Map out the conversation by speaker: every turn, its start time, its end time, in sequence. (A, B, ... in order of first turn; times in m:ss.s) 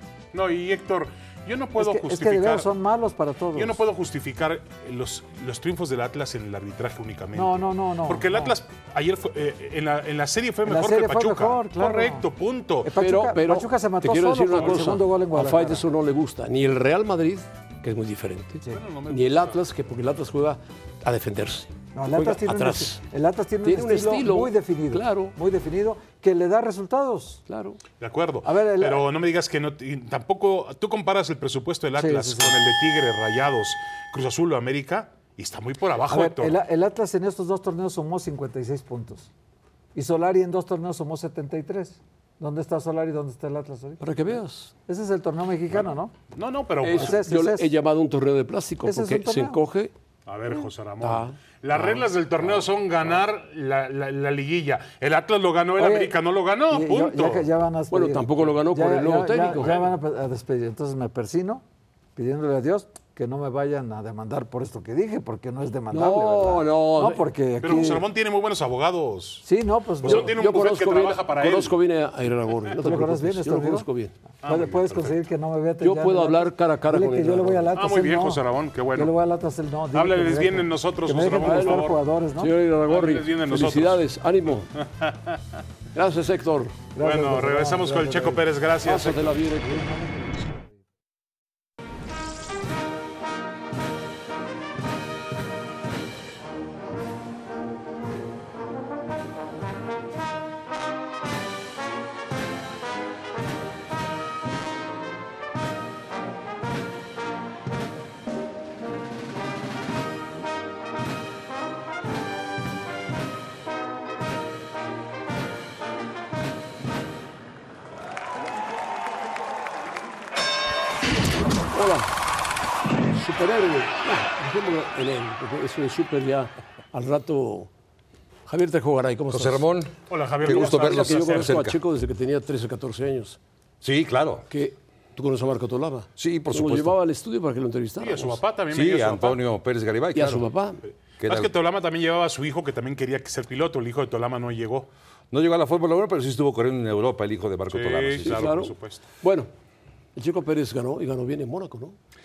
0:00.3-0:02.7 A
0:01.8-0:03.8 B
0:03.6-0:12.9 A
0:07.3-0:08.6 B
0:10.6-0:12.3 B
0:12.8-0:15.8 B
0:13.0-0:23.0 C
0:14.6-0:14.8 A
0:18.7-0:19.6 A
0:21.9-0:27.4 B
0:23.6-0:25.4 C
0:27.5-0:27.8 C
0:28.0-0:36.6 A
0:28.4-0:29.1 B
0:32.0-0:32.6 B
0:36.1-0:39.3 B
0:40.0-0:44.0 B
0:44.0-0:44.7 C
0:44.9-0:46.1 B
0:46.3-0:47.2 A
0:46.8-0:49.9 C
0:46.9-0:47.7 B
0:48.8-0:49.6 B
0:50.3-0:57.5 A
0:51.0-0:52.6 C
0:55.8-1:01.6 B
0:57.9-0:59.7 C
0:59.6-0:59.9 A
1:02.2-1:08.0 B
1:05.9-1:07.2 C
1:07.6-1:09.5 A
1:09.4-1:10.4 B
1:10.0-1:11.8 A
1:10.0-1:14.1 C
1:12.8-1:13.9 B
1:14.4-1:18.4 B
1:14.4-1:15.2 A
1:15.8-1:17.7 C
1:17.8-1:19.1 A
1:18.9-1:22.5 B
1:19.9-1:22.0 A
1:21.4-1:24.7 C
1:22.9-1:24.0 A
1:24.8-1:25.4 A
1:26.0-1:26.8 C
1:27.0-1:28.5 B
1:27.0-1:29.3 A
1:28.8-1:29.9 C
1:29.1-1:30.8 B
2:01.7-2:02.1 C
2:03.1-2:07.7 C
2:08.5-2:09.7 C
2:09.3-2:11.8 D
2:10.1-2:11.6 A
2:10.5-2:13.4 C
2:13.8-2:14.4 D
2:14.5-2:18.4 C
2:16.2-2:17.0 D
2:18.0-2:19.4 A
2:18.7-2:20.4 D
2:20.1-2:20.8 C
2:21.2-2:24.9 A
2:21.2-2:21.5 D
2:25.3-2:28.5 D
2:27.7-2:29.0 A
2:28.2-2:29.5 C
2:30.2-2:32.0 C